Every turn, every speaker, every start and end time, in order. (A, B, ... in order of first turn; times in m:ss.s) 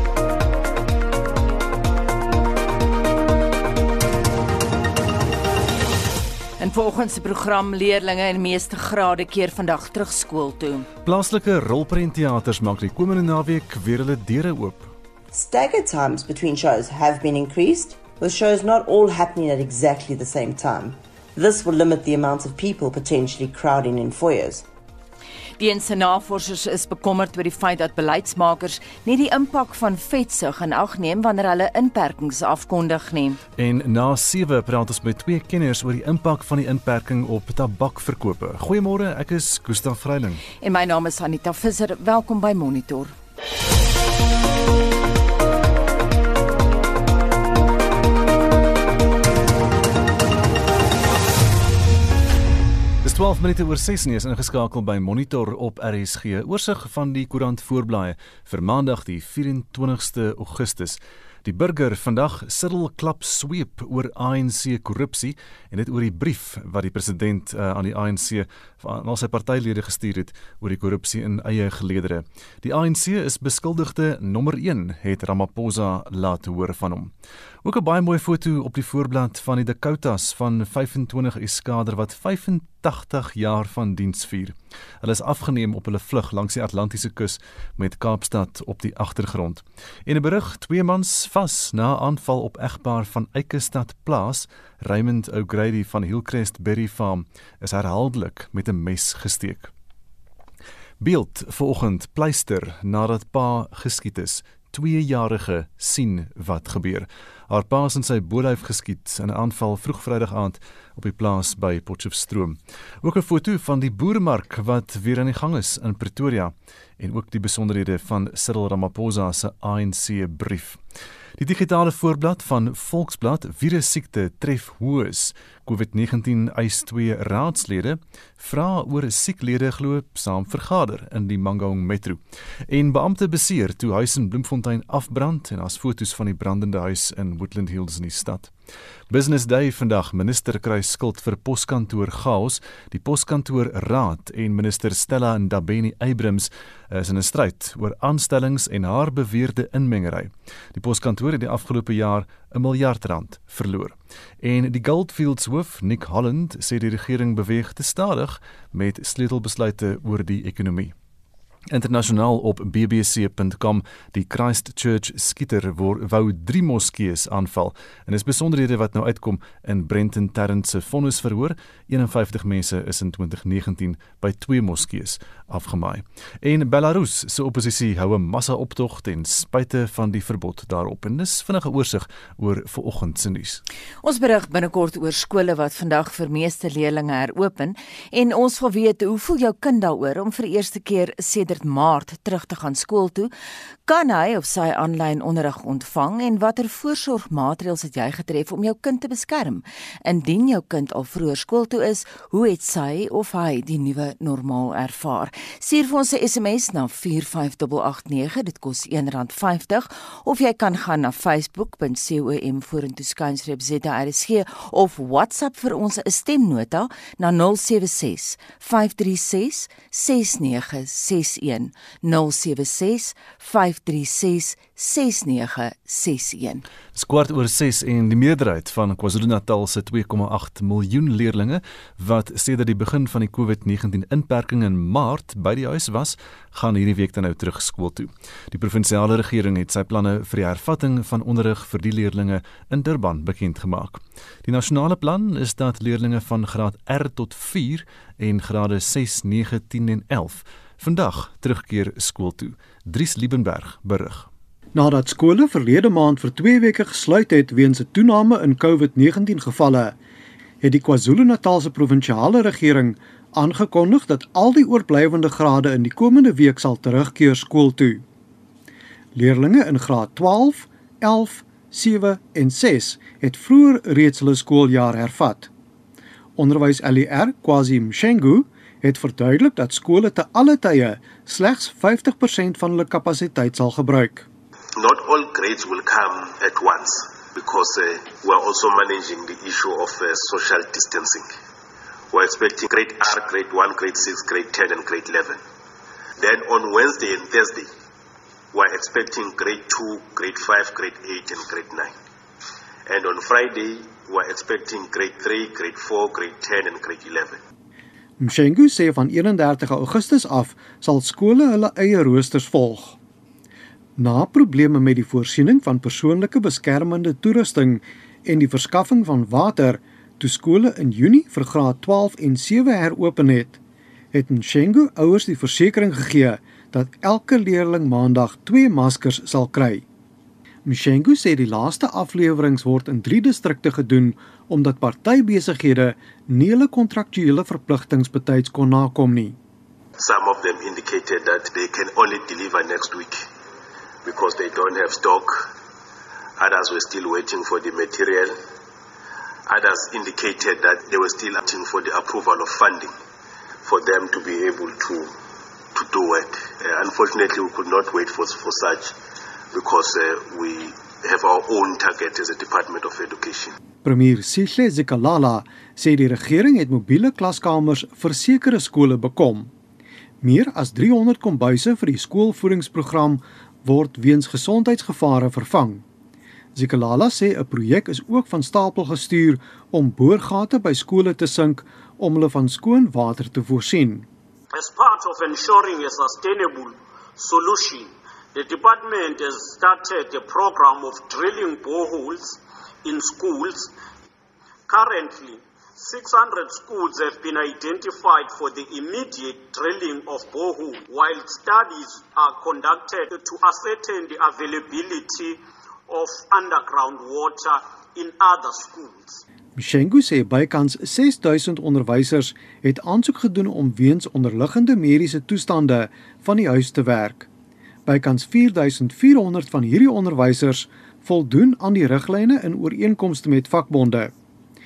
0:06.6-0:10.8 A
0:11.0-0:14.9 B
0:15.3-0:24.6 C
0:25.6-0:33.4 A
0:33.6-0:40.4 B
0:40.6-0:43.1 A
0:53.0-1:17.1 B
1:17.6-1:39.7 B
1:41.0-2:00.8 B
2:01.4-2:18.5 B
2:19.1-2:40.9 B
2:41.7-3:03.6 B
3:04.0-3:13.3 A
3:13.8-3:46.6 A
3:46.9-4:14.3 B
4:14.7-4:20.0 D
4:20.6-4:28.0 D
4:29.1-4:35.5 D
4:36.4-4:44.2 D
4:44.8-4:51.3 E
4:52.1-4:55.4 E
4:56.2-4:57.7 E
4:58.5-5:02.0 E
5:02.8-5:07.4 E
5:08.2-5:13.0 D
5:14.0-5:23.6 D
5:24.1-5:29.8 D
5:30.6-5:39.4 D
5:40.0-5:43.2 E
5:44.0-5:45.5 E
5:46.4-5:48.4 E
5:49.5-5:52.9 E
5:53.6-5:55.1 E
5:55.7-5:58.9 E
5:59.5-6:03.5 E
6:03.8-6:09.5 D
6:10.2-6:15.8 D
6:16.5-6:24.1 D
6:24.5-6:33.7 F
6:34.7-6:49.2 F
6:49.6-6:57.3 D
6:57.8-7:04.1 D